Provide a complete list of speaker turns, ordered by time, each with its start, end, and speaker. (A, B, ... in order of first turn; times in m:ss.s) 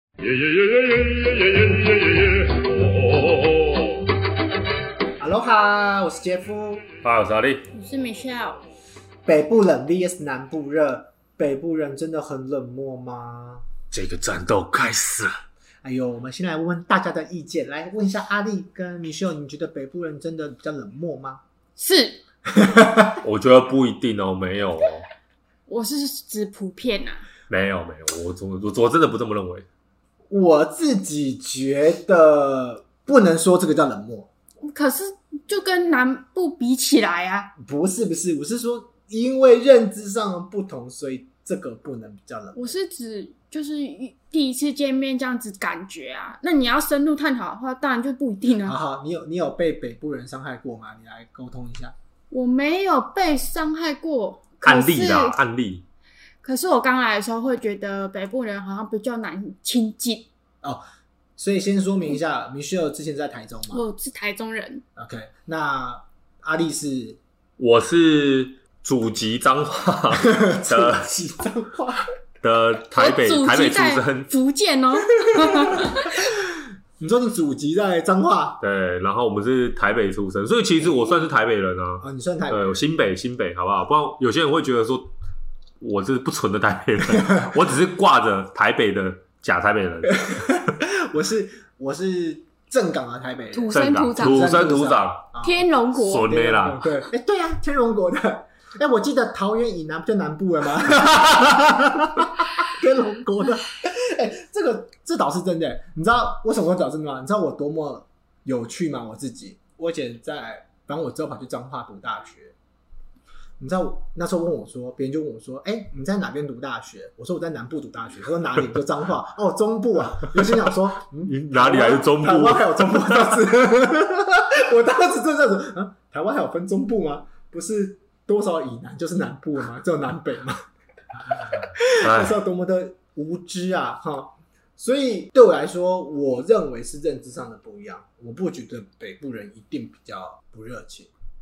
0:00.8-0:01.8 A
0:02.6-0:03.7 A
0:05.2-0:06.8 B
0:07.0-0:07.7 A
0:07.7-0:08.6 C
0:09.2-0:13.6 B
0:13.9-0:15.3 A
0:15.8-0:21.4 B
0:21.8-0:22.2 C
0:22.5-0:23.2 B
0:23.2-0:25.0 A
0:25.7-0:27.2 C
0:27.5-0:29.6 A
0:30.3-0:34.3 B
0:34.6-0:37.5 C
0:37.6-0:42.7 B
0:42.5-0:48.8 C
0:48.6-0:51.9 B
0:52.3-0:55.4 C
0:54.6-0:55.8 A
0:56.4-1:00.3 C
1:01.4-1:03.8 B
1:03.7-1:04.8 C
1:05.0-1:07.2 B
1:07.6-1:11.0 A
1:10.2-1:12.0 B
1:12.4-1:14.3 A
1:12.9-1:16.2 C
1:15.4-1:18.6 B
1:18.6-1:25.1 A
1:22.0-1:22.8 B
1:25.8-1:30.6 A
1:30.1-1:52.5 B
1:33.5-1:34.6 C
1:33.7-1:35.2 A
1:35.4-1:36.3 C
1:35.9-1:36.8 A
1:53.6-2:10.6 B
2:01.2-2:03.4 A
2:11.5-2:21.1 B
2:12.0-2:12.4 A